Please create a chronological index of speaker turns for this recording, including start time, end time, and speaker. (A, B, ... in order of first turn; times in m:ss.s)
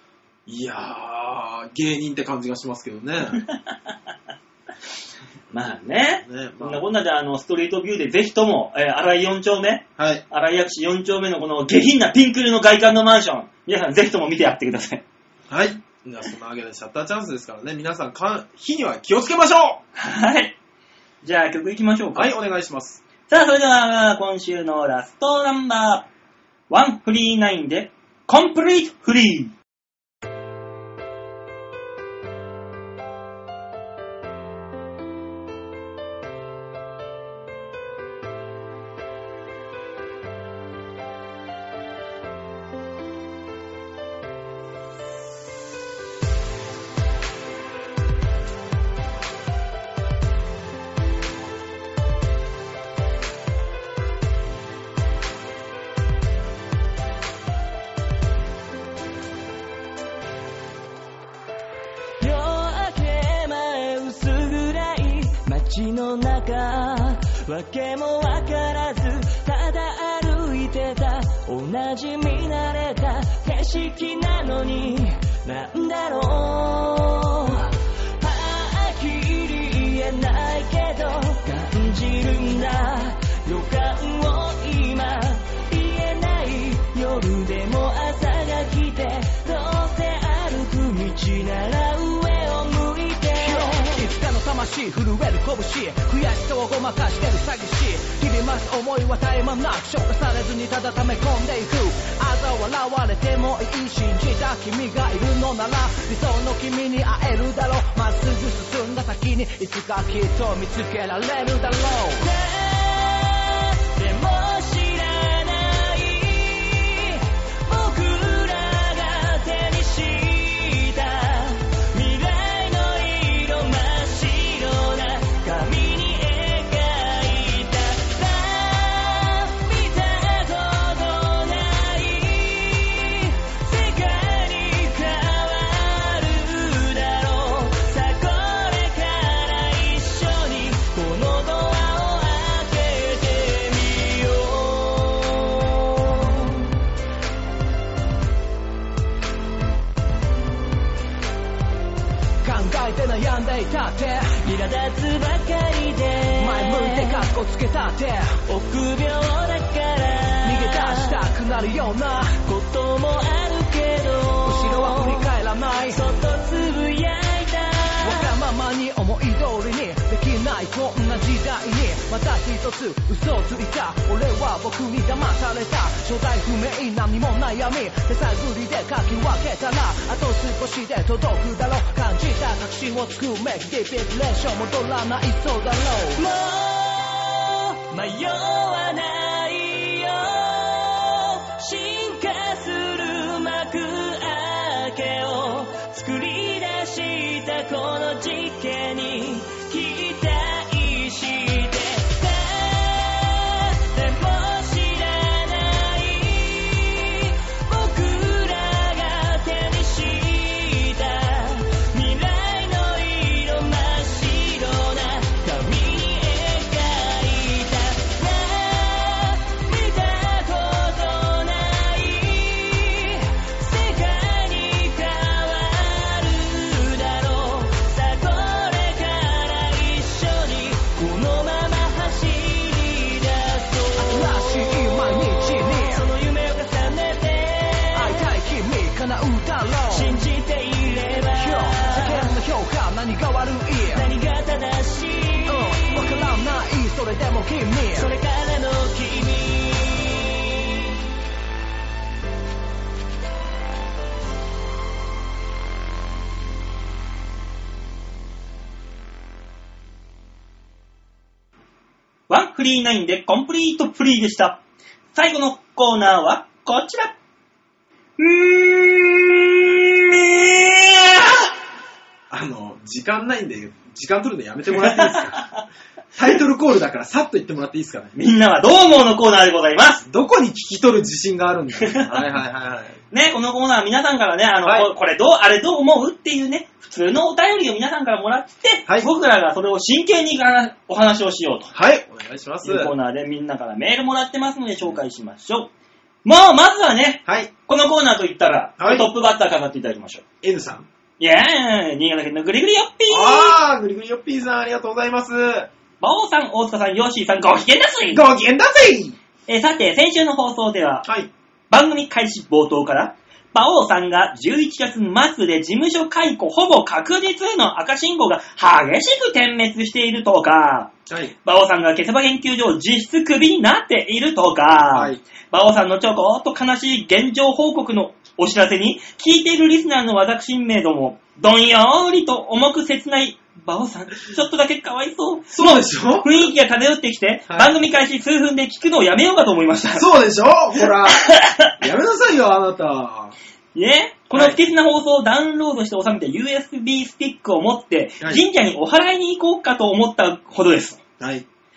0:00.5-0:03.4 A
0:05.5-0:15.0 B
0:06.2-0:06.8 A
0:10.0-0:10.2 A
0:15.5-0:19.8 A
0:20.0-0:20.6 B
0:21.2-0:22.3 B
0:22.1-0:23.0 A
0:23.3-0:26.1 B
0:26.7-0:29.5 B
1:02.2-1:34.1 C
1:33.4-1:52.3 D
1:52.2-2:26.6 C
2:32.4-2:34.4 D
2:34.4-2:37.3 C
2:36.4-2:38.4 D
2:38.4-2:41.3 C
2:40.4-2:42.4 D
2:42.4-2:48.3 C
2:44.4-2:46.0 D
2:48.0-3:06.2 D
3:06.1-3:58.3 C
3:54.0-3:56.1 D
3:57.9-4:00.1 D
3:59.9-4:02.4 C
4:01.4-4:04.1 D
4:03.9-4:05.9 C
4:05.5-4:08.1 D
4:07.9-4:10.9 C
4:22.3-4:24.6 B
4:25.1-4:27.1 B
4:28.2-4:31.5 B
4:32.3-4:35.5 A
4:34.7-4:35.6 B
4:36.1-4:38.1 A
4:38.1-4:40.0 B
4:40.0-4:43.0 A
4:41.8-4:42.2 B
4:43.1-4:51.7 B
4:44.6-4:44.9 A
4:51.7-4:52.9 A
4:52.6-4:55.7 B
4:56.2-5:00.2 B
4:58.8-4:59.1 A
5:00.4-5:00.9 A
5:01.2-5:03.6 B
5:03.1-5:05.7 A
5:06.0-5:08.2 B
5:08.1-5:09.2 A
5:09.5-5:11.1 B
5:11.0-5:11.3 A
5:11.7-5:20.9 B
5:21.1-5:21.3 A
5:21.4-5:40.1 B
5:24.9-5:25.2 A
5:35.5-5:36.5 A
5:40.0-5:41.3 A
5:41.2-5:41.7 B
5:41.8-5:43.4 A
5:43.8-5:51.0 B
5:44.3-5:44.6 A
5:51.2-5:51.4 A